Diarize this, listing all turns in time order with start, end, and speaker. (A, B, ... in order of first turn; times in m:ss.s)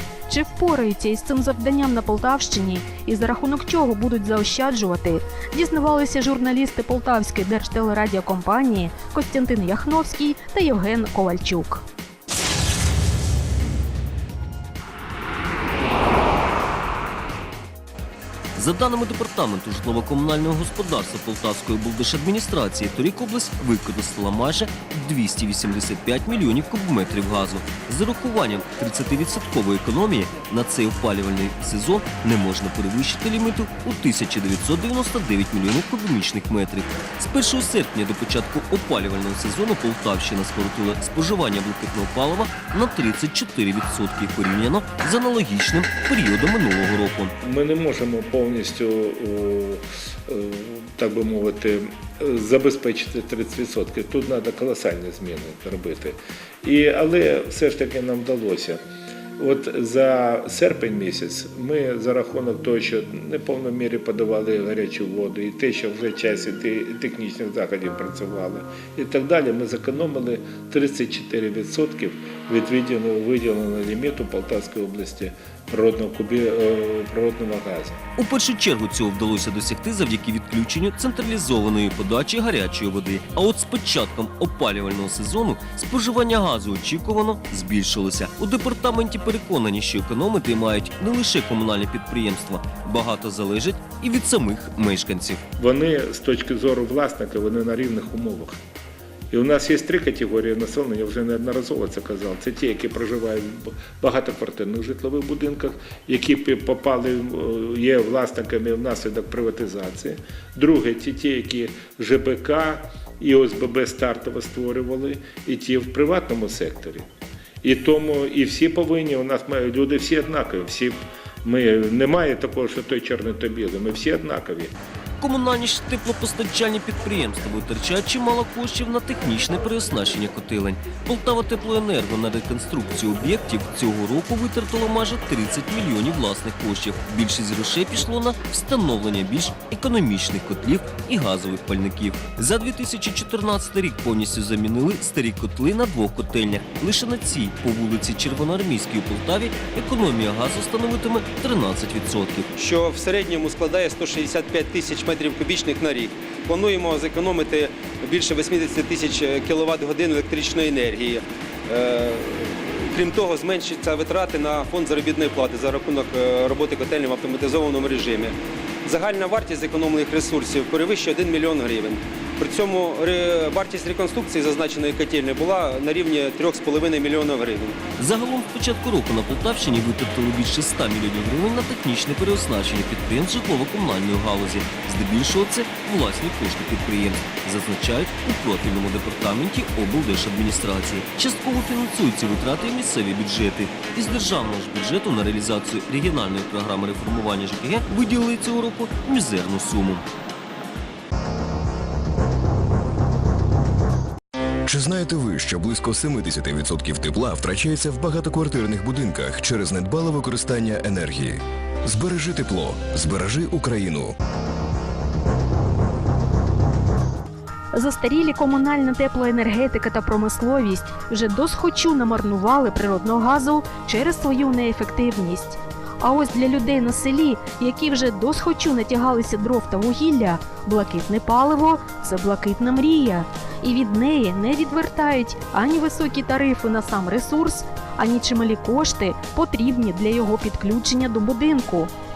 0:00.3-0:11.8 A
0:18.6-0:47.3 B
0:47.4-0:58.8 C
0:59.4-1:18.0 C
1:18.2-1:35.4 B
1:35.6-1:38.6 C
1:39.3-1:57.1 C
1:57.6-2:04.7 C
2:05.2-2:32.5 B
2:32.6-2:57.8 D
2:58.0-3:20.0 B
3:24.7-3:34.1 E
3:37.7-4:01.9 A